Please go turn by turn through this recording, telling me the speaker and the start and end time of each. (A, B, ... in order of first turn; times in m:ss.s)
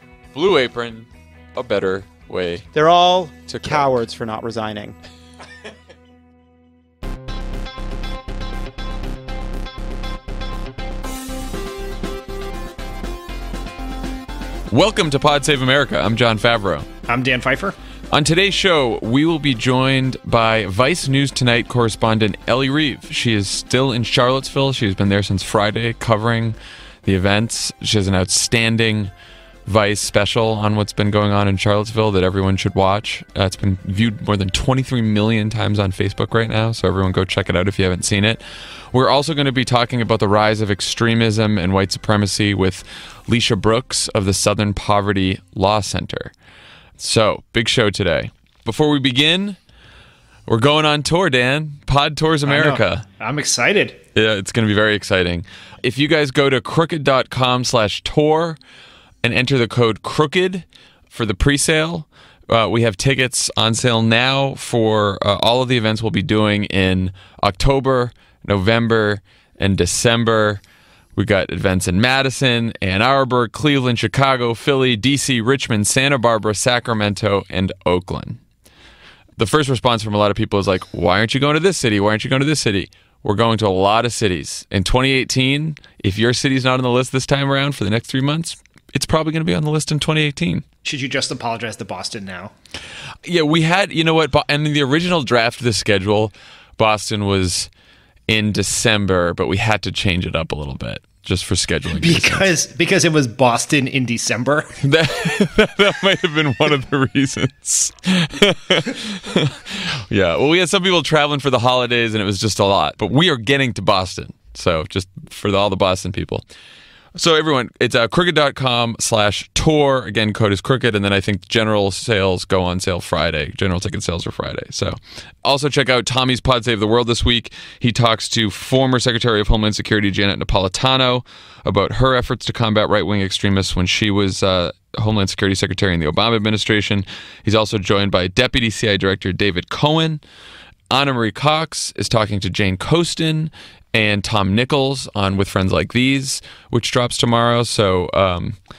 0:00.3-0:02.7 A
0:02.7-0:05.0 B
0:03.5-0:04.0 A
0:14.7-0:16.9 A
0:17.1-0:17.8 C
0:18.1-0:29.1 A
0:29.7-0:38.4 A
0:38.9-0:46.3 A
0:47.0-0:49.6 A
0:50.5-0:53.0 A
0:52.4-0:54.0 C
0:54.2-0:58.6 A
0:59.2-1:10.6 A
1:11.2-1:18.4 A
1:19.4-1:30.6 A
1:30.8-1:32.5 C
1:33.2-1:37.7 A
1:38.3-1:42.5 A
1:41.9-1:44.8 C
1:44.8-1:56.4 A
1:57.2-2:20.2 A
2:20.9-2:28.6 A